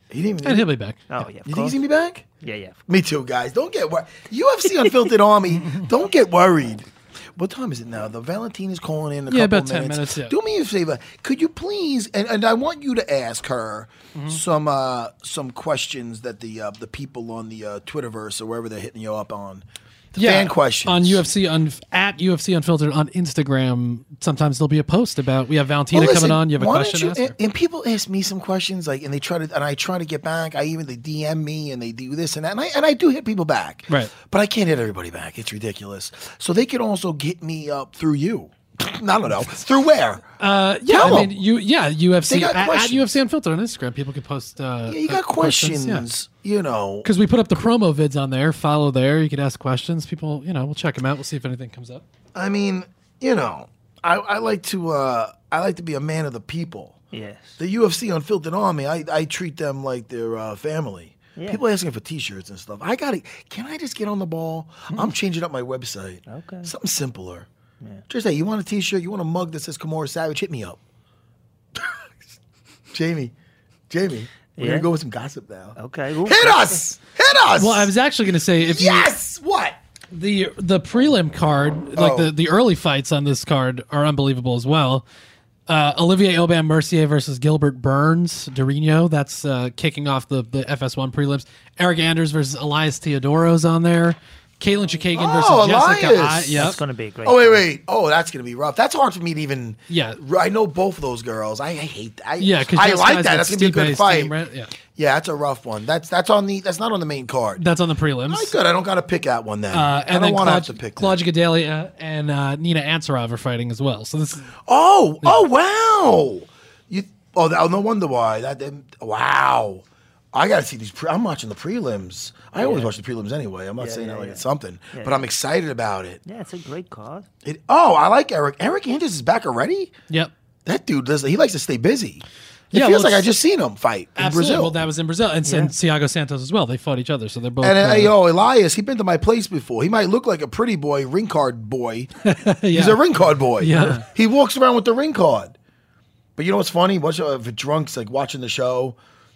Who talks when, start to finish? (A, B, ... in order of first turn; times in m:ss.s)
0:00.1-0:00.7 A
0:00.4-0:01.0 B
0:01.1-0:01.8 C
0:01.4-0:02.2 A
0:02.4-0:02.8 C
0:02.9-0:21.3 A
0:09.3-0:10.3 B
0:20.2-0:27.3 B
0:25.9-0:40.2 A
0:40.4-0:46.0 B
0:40.9-0:41.4 A
0:42.3-0:43.2 A
0:44.9-0:47.1 A
0:47.0-0:52.0 B
0:52.3-0:57.0 A
0:57.1-0:57.6 C
0:57.6-1:07.5 A
1:01.4-1:01.6 C
1:06.3-1:06.7 C
1:08.1-1:10.8 A
1:11.8-1:12.3 A
1:12.9-1:13.3 A
1:13.9-1:17.9 A
1:14.6-1:14.9 C
1:15.8-1:16.8 C
1:17.5-1:19.1 B
1:18.6-1:19.8 A
1:20.1-1:25.0 B
1:21.9-1:22.3 A
1:25.7-1:36.8 B
1:35.1-1:36.7 A
1:36.6-1:37.6 C
1:37.2-1:44.3 A
1:39.9-1:40.2 B
1:42.4-1:44.7 B
1:44.9-1:47.6 A
1:47.6-1:48.5 B
1:48.3-1:51.2 A
1:49.7-1:54.5 B
1:54.6-2:06.2 A
2:02.6-2:02.9 C
2:03.8-2:05.3 C
2:06.2-2:07.3 C
2:07.4-2:09.9 A
2:10.6-2:14.8 A
2:12.7-2:13.3 B
2:14.2-2:18.1 B
2:15.4-2:15.7 C
2:17.6-2:22.1 A
2:22.2-2:23.0 B
2:22.7-2:25.6 A
2:23.6-2:24.0 B
2:23.7-2:24.0 C
2:26.4-2:29.0 A